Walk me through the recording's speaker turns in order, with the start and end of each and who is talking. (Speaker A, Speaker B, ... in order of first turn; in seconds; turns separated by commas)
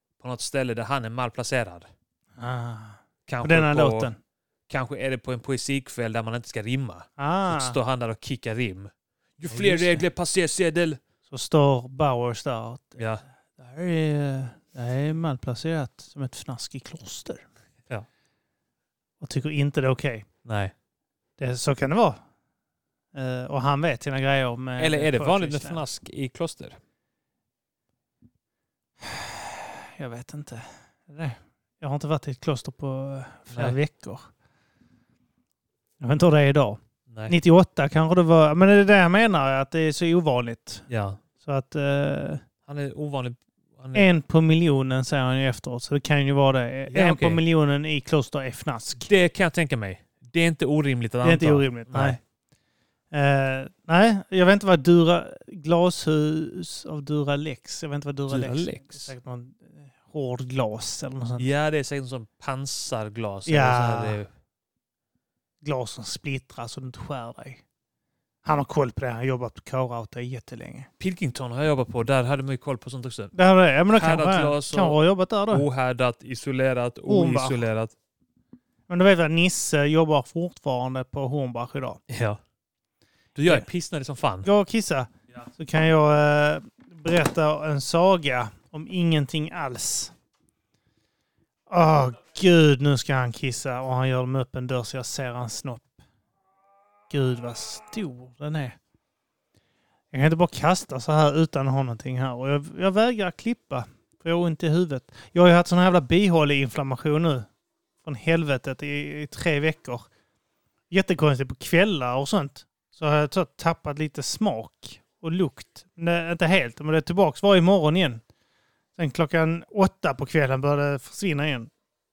Speaker A: 0.2-1.9, Speaker B: 2.4-4.2, Speaker A: 3.3-4.1, Speaker A: 4.7-11.0, Speaker B: 7.2-7.8, Speaker B: 9.4-10.0, Speaker B: 11.3-13.0, Speaker A: 13.0-13.2, Speaker B: 13.6-17.4, Speaker B: 19.2-20.3, Speaker A: 20.4-20.7, Speaker B: 21.4-22.2, Speaker B: 23.1-25.8, Speaker A: 24.8-26.8, Speaker B: 29.0-34.2, Speaker A: 33.5-33.8, Speaker B: 36.0-40.9, Speaker A: 37.1-37.4, Speaker A: 40.9-41.2, Speaker B: 41.4-42.4, Speaker A: 42.6-44.1, Speaker B: 43.9-49.1, Speaker A: 46.9-47.4, Speaker A: 49.0-52.2, Speaker B: 51.2-52.2, Speaker B: 53.1-61.5, Speaker A: 58.3-59.1, Speaker A: 61.4-64.3, Speaker B: 63.5-64.2, Speaker B: 65.6-67.6, Speaker B: 68.4-70.9, Speaker A: 71.0-73.3, Speaker B: 73.3-75.6, Speaker A: 73.9-77.9, Speaker B: 77.1-77.6, Speaker B: 78.9-82.0, Speaker A: 82.1-82.4, Speaker A: 83.3-84.5, Speaker B: 84.4-90.1, Speaker B: 91.7-95.9, Speaker B: 97.1-98.8, Speaker B: 100.1-107.5, Speaker B: 108.0-110.1, Speaker B: 110.9-118.2, Speaker B: 119.0-121.7